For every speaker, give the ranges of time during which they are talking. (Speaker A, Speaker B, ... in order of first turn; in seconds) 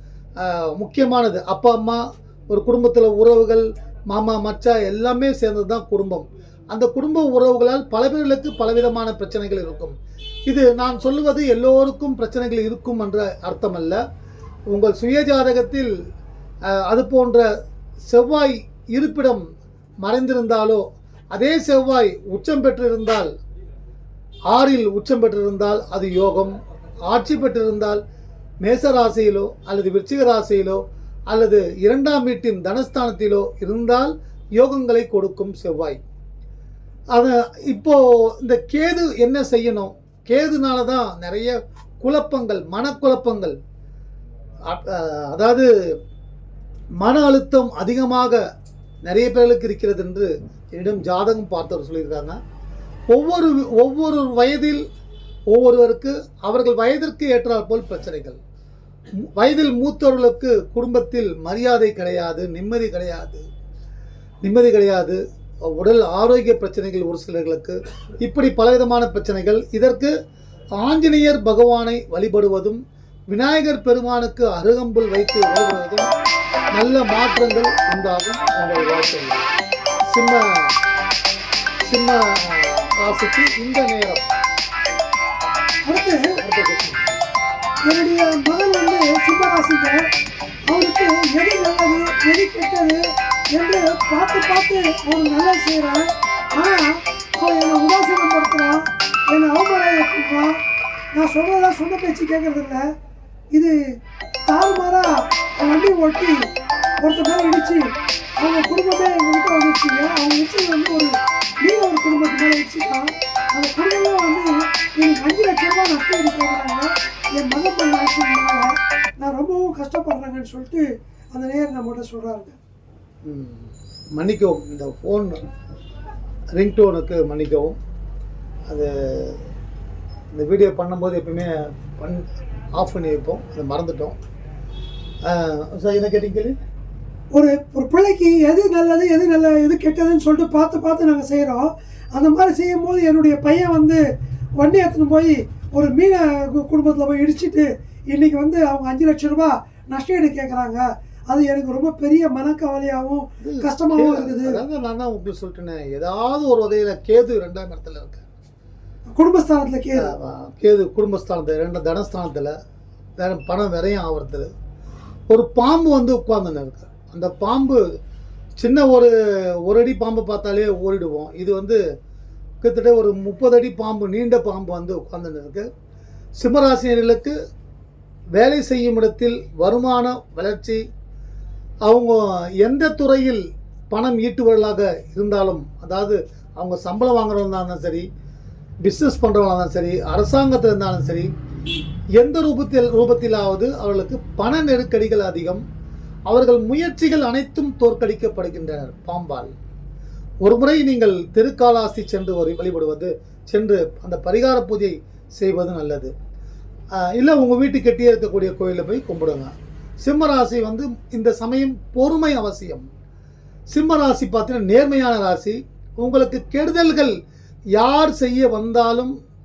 Speaker A: 0.4-14.0, 14.7-15.9, 16.7-17.5, 18.1-19.4, 20.0-23.3, 24.5-26.6, 27.1-28.0, 28.6-36.0, 37.1-43.6, 44.7-46.0, 47.0-48.4, 49.0-52.4, 53.1-54.9, 55.5-58.4, 59.4-63.5, 64.4-70.1, 70.8-76.1, 76.8-79.5, 80.1-80.7, 81.8-84.3, 86.4-87.0, 123.2-125.4, 126.5-127.8, 128.7-129.4, 130.3-134.2, 135.2-136.6, 153.4-158.2, 160.0-162.5, 163.2-164.5, 165.3-167.8, 168.6-171.8, 172.6-175.7, 176.4-177.4, 178.3-180.8, 181.8-188.1, 188.8-191.3, 192.2-195.6, 196.3-199.5, 200.4-206.1, 206.9-209.5, 210.0-212.9, 213.7-217.2, 217.8-219.1
Speaker B: 85.9-86.4, 87.9-90.0, 90.7-93.0, 93.5-100.6, 101.2-102.8, 104.5-106.4, 107.0-111.1, 111.6-122.6, 137.3-144.0, 144.6-154.6, 159.2-160.1